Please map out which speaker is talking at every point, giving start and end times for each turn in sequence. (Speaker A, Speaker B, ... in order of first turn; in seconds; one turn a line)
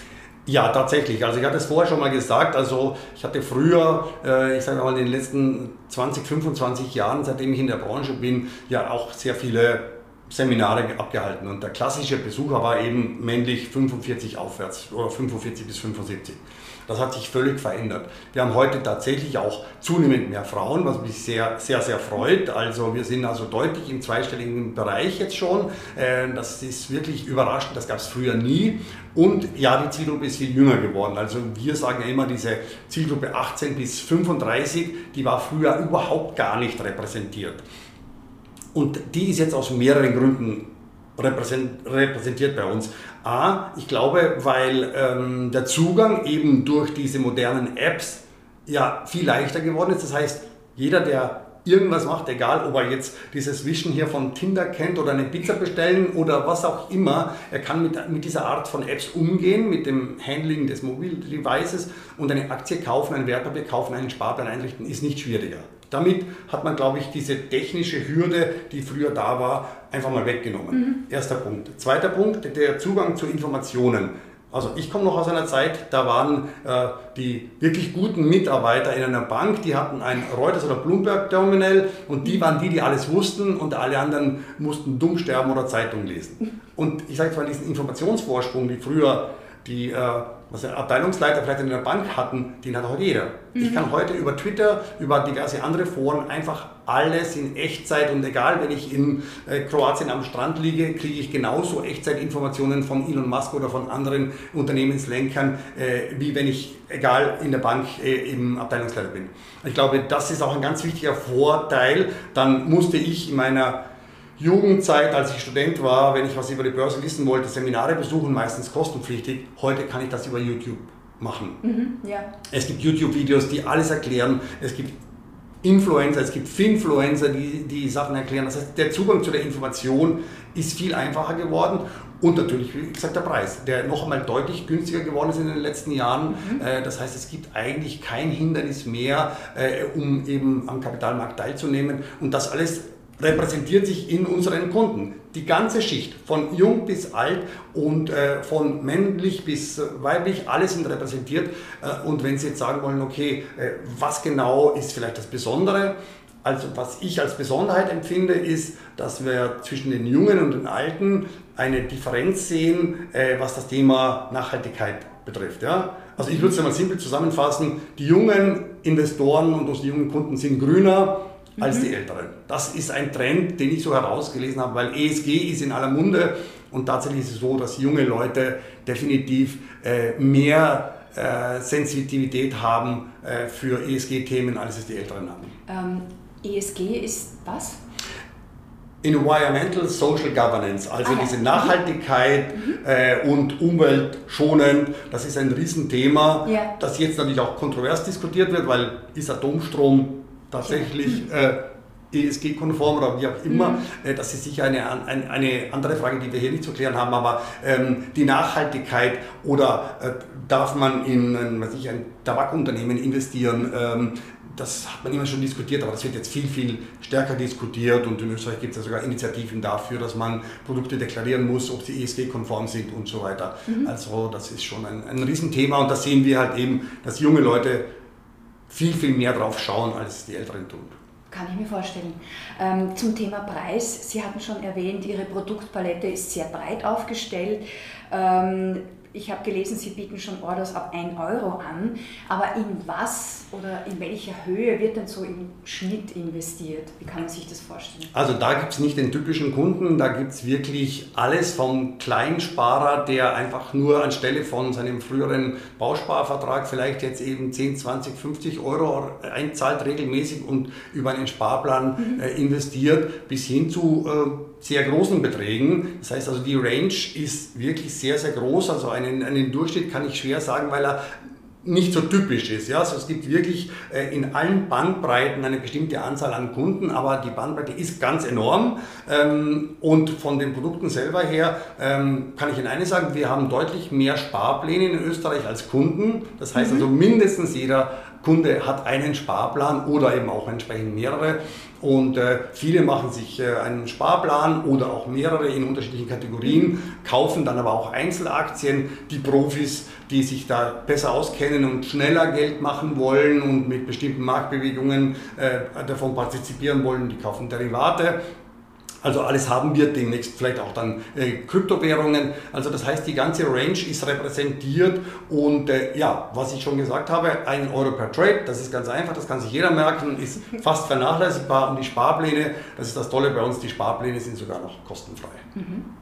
Speaker A: 0.5-37.6
Speaker A: 38.7-40.7
Speaker A: 41.2-113.8
Speaker A: 114.4-121.6
Speaker B: 121.6-122.3
Speaker A: 122.5-125.0
Speaker A: 125.6-185.6
Speaker B: 185.7-187.8
Speaker A: 189.0-201.6
Speaker B: 191.1-191.7
Speaker B: 196.5-196.7
Speaker A: 202.1-227.8
Speaker B: 203.5-203.8
Speaker A: 228.7-230.9
Speaker B: 231.3-248.1
Speaker A: 248.1-271.1
Speaker A: 271.6-308.2
Speaker B: 286.6-286.9
Speaker A: 309.0-325.4
Speaker B: 325.6-325.9